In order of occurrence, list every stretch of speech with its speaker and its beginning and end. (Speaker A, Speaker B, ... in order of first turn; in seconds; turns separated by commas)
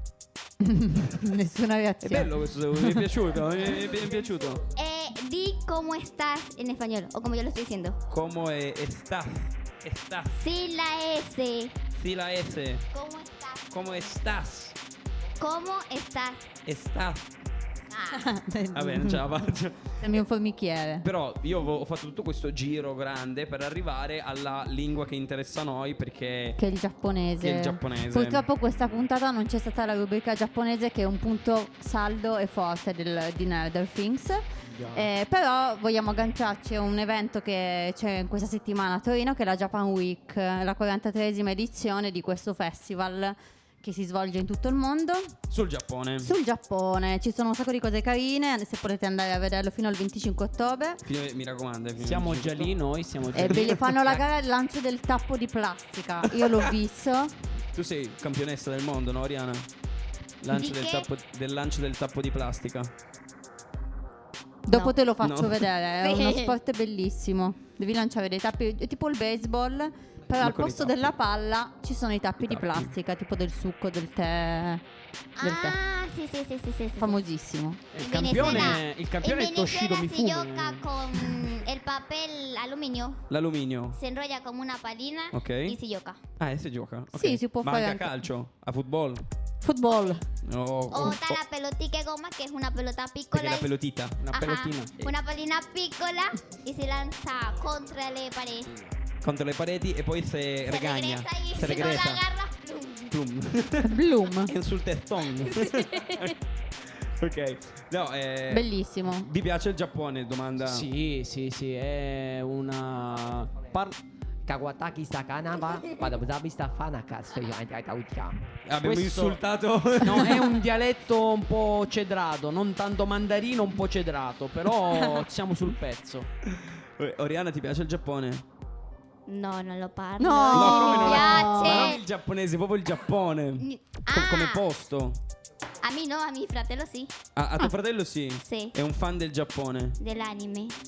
Speaker A: 0.6-3.1, Speaker B: 2.0-4.6, Speaker C: 4.7-8.0, Speaker B: 8.1-10.4, Speaker C: 10.3-11.8, Speaker B: 11.9-12.9, Speaker C: 12.9-13.7, Speaker B: 13.7-14.8, Speaker C: 15.4-16.5, Speaker B: 16.6-17.3, Speaker C: 17.9-18.2, Speaker A: 18.1-19.4, Speaker B: 18.7-20.0, Speaker A: 20.0-21.1, Speaker B: 21.0-26.6, Speaker A: 26.6-45.3, Speaker B: 27.4-28.5, Speaker D: 34.7-35.1, Speaker B: 45.5-46.3, Speaker A: 46.2-51.0, Speaker B: 51.0-52.7, Speaker E: 52.0-54.2, Speaker B: 53.3-53.7, Speaker A: 53.4-57.3, Speaker B: 56.3-56.7, Speaker B: 57.7-59.7, Speaker B: 60.4-62.9, Speaker C: 60.5-61.1, Speaker A: 64.7-74.8, Speaker C: 64.7-64.9, Speaker B: 65.2-65.7, Speaker C: 66.0-66.6, Speaker B: 70.4-71.1, Speaker B: 72.4-72.9, Speaker C: 75.4-77.2, Speaker A: 75.4-75.8, Speaker A: 77.0-77.8, Speaker E: 77.9-81.5, Speaker C: 78.0-83.2, Speaker A: 78.3-78.7, Speaker B: 83.3-84.0, Speaker C: 83.9-86.2, Speaker B: 85.3-85.8, Speaker B: 86.4-89.2, Speaker A: 87.1-88.1, Speaker A: 89.6-90.2, Speaker C: 89.9-90.2, Speaker B: 90.4-91.4, Speaker C: 90.9-93.7, Speaker B: 93.3-94.2, Speaker E: 94.2-95.0, Speaker C: 94.3-98.7, Speaker B: 99.2-102.2, Speaker C: 100.7-103.1, Speaker B: 103.1-106.3, Speaker A: 103.8-104.5, Speaker B: 107.0-110.9, Speaker A: 108.5-109.3, Speaker E: 110.6-114.0, Speaker D: 114.5-118.4, Speaker B: 118.6-120.4, Speaker E: 118.8-119.4, Speaker E: 120.0-126.3, Speaker B: 126.4-128.4, Speaker C: 129.3-132.0, Speaker A: 130.2-131.9, Speaker B: 130.5-135.2, Speaker C: 133.6-134.6, Speaker C: 135.8-137.1, Speaker B: 137.3-140.0, Speaker C: 138.4-138.7, Speaker C: 140.0-140.8